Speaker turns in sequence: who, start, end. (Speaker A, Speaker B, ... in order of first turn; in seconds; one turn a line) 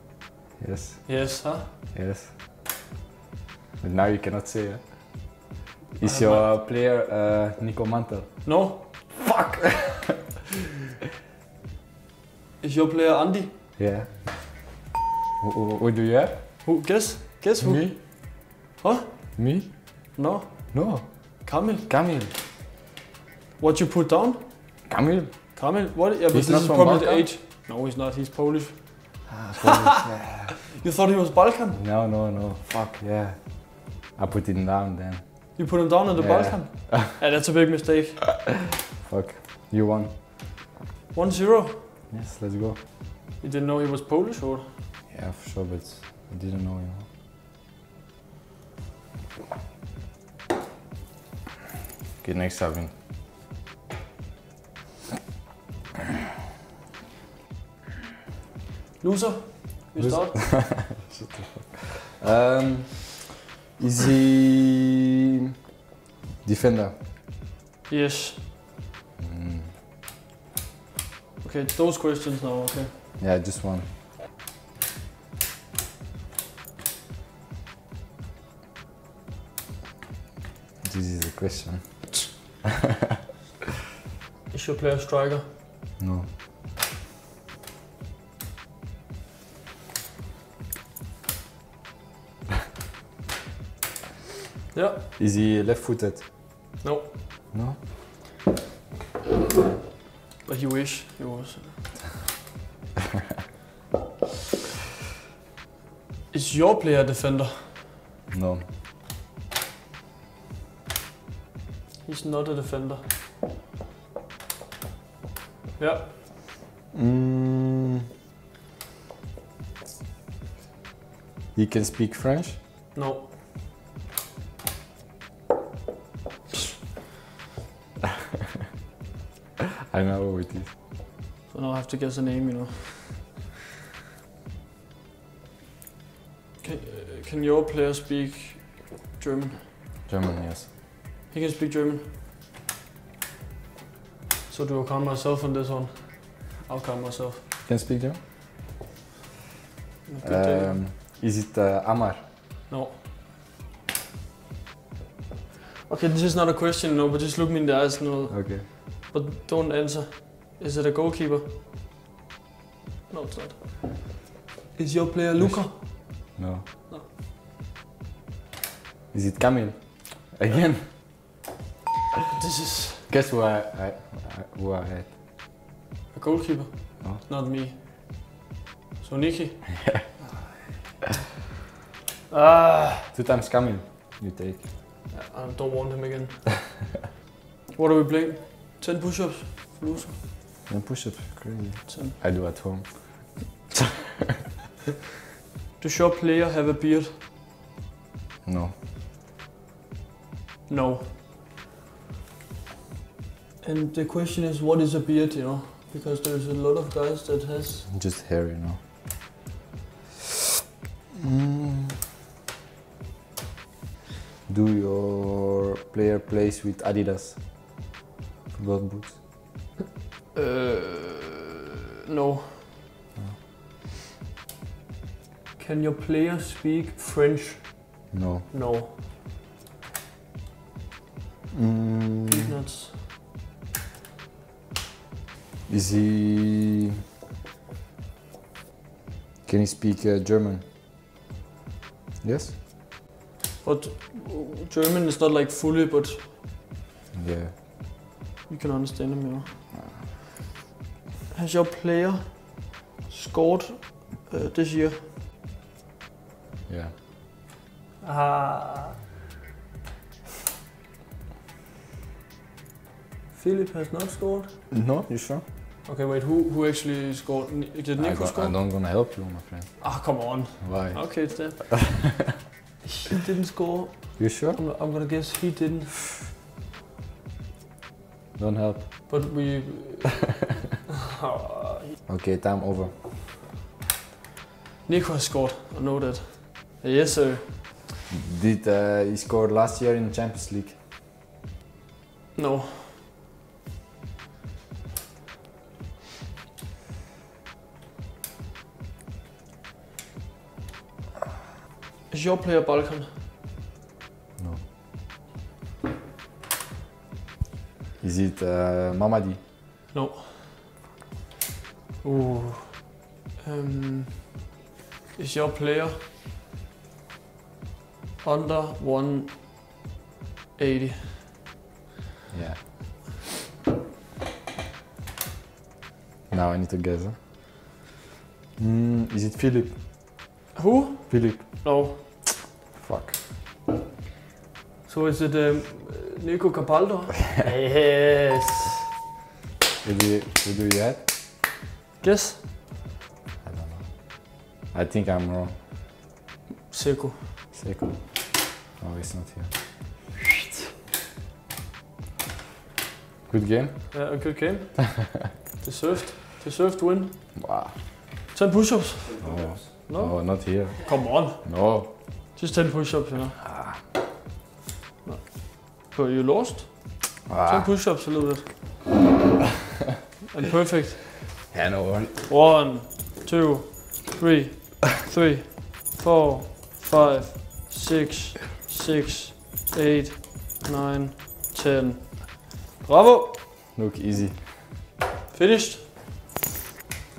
Speaker A: 0.6-1.3
Speaker B: 1.1-1.7
Speaker A: 1.9-2.3
Speaker A: 3.8-8.6
Speaker B: 6.0-6.5
Speaker B: 8.4-9.1
Speaker A: 9.1-10.1
Speaker B: 12.6-13.6
Speaker A: 13.8-14.6
Speaker A: 15.4-16.5
Speaker B: 16.6-19.5
Speaker A: 17.6-18.0
Speaker A: 19.4-19.9
Speaker B: 20.1-22.0
Speaker A: 20.7-22.3
Speaker B: 23.6-24.8
Speaker A: 24.8-25.6
Speaker B: 25.5-29.9
Speaker A: 26.3-27.3
Speaker A: 29.3-30.6
Speaker B: 30.7-31.9
Speaker A: 31.7-37.2
Speaker B: 35.5-38.4
Speaker A: 39.0-40.1
Speaker B: 41.1-41.9
Speaker A: 42.1-42.8
Speaker B: 43.4-44.7
Speaker A: 45.1-47.1
Speaker A: 52.2-52.9
Speaker B: 59.0-60.6
Speaker A: 60.0-63.2
Speaker A: 63.8-64.8
Speaker A: 66.4-66.9
Speaker B: 67.9-68.5
Speaker A: 69.2-69.7
Speaker B: 71.4-72.9
Speaker A: 73.2-73.9
Speaker A: 80.8-82.3
Speaker B: 84.5-85.5
Speaker A: 86.0-86.3
Speaker B: 94.7-95.1
Speaker A: 95.2-96.2
Speaker B: 96.8-97.2
Speaker A: 97.5-97.8
Speaker B: 100.4-102.0
Speaker B: 106.3-107.8
Speaker A: 108.3-108.6
Speaker B: 112.0-113.1
Speaker B: 115.8-116.1
Speaker A: 116.9-118.0
Speaker A: 121.5-122.6
Speaker B: 122.9-123.3
Speaker A: 129.9-130.7
Speaker B: 131.5-133.4
Speaker B: 136.6-139.7
Speaker A: 140.1-140.7
Speaker B: 141.3-142.1
Speaker B: 144.5-147.4
Speaker A: 147.7-148.2
Speaker B: 150.1-150.8
Speaker A: 150.2-152.2
Speaker B: 152.7-153.0
Speaker B: 155.8-161.5
Speaker A: 158.3-158.7
Speaker B: 163.1-166.3
Speaker A: 165.4-166.6
Speaker A: 169.1-171.0
Speaker B: 172.4-173.1
Speaker A: 173.1-175.1
Speaker B: 176.1-177.8
Speaker B: 179.0-180.0
Speaker B: 182.3-183.1
Speaker A: 183.1-184.7
Speaker B: 185.1-186.5
Speaker B: 187.7-190.2
Speaker A: 190.7-193.7
Speaker B: 191.9-192.2
Speaker B: 195.8-197.2
Speaker A: 198.4-198.7
Speaker B: 200.7-201.1
Speaker B: 203.6-207.9
Speaker A: 207.9-208.8
Speaker A: 211.2-211.9
Speaker A: 214.5-217.4
Speaker A: 218.5-219.2
Speaker B: 220.3-221.5
Speaker B: 222.0-222.7
Speaker B: 225.6-228.9
Speaker A: 228.1-228.5
Speaker A: 231.5-232.5
Speaker B: 232.3-233.1
Speaker A: 235.7-236.9
Speaker A: 239.4-240.6
Speaker A: 242.2-242.5
Speaker B: 243.6-246.3
Speaker A: 247.1-247.6
Speaker B: 248.5-249.6
Speaker B: 251.3-255.0
Speaker A: 256.7-256.9
Speaker B: 258.0-259.0
Speaker B: 263.3-264.6
Speaker A: 264.7-265.4
Speaker B: 265.8-268.7
Speaker A: 268.0-269.9
Speaker B: 269.8-272.1
Speaker A: 270.6-271.7
Speaker B: 272.8-275.9
Speaker A: 274.2-274.6
Speaker A: 278.4-279.3
Speaker B: 279.1-280.5
Speaker B: 281.2-281.9
Speaker A: 282.1-282.9
Speaker B: 284.8-287.9
Speaker A: 288.1-290.8
Speaker B: 292.3-293.0
Speaker B: 302.1-303.1
Speaker A: 304.4-304.6
Speaker A: 308.0-309.4
Speaker B: 309.9-310.6
Speaker B: 312.0-314.4
Speaker B: 315.1-316.0
Speaker B: 318.2-319.4
Speaker B: 320.6-321.3
Speaker A: 322.3-322.6
Speaker A: 326.3-327.1
Speaker A: 328.6-329.8
Speaker B: 330.5-332.5
Speaker A: 331.1-331.7
Speaker A: 332.8-333.2
Speaker B: 334.9-338.8
Speaker A: 339.8-341.1
Speaker B: 342.0-342.4
Speaker A: 343.4-345.6
Speaker B: 346.7-347.6
Speaker A: 347.5-348.2
Speaker A: 348.8-349.5
Speaker A: 353.3-354.2
Speaker B: 353.9-355.0
Speaker B: 355.6-357.4
Speaker A: 357.4-357.7
Speaker B: 358.1-363.5
Speaker A: 359.2-362.0
Speaker A: 363.5-363.8
Speaker B: 365.0-368.8
Speaker A: 367.2-367.7
Speaker B: 370.3-371.2
Speaker A: 371.5-372.2
Speaker B: 372.3-383.6
Speaker A: 383.7-384.5
Speaker B: 385.3-386.0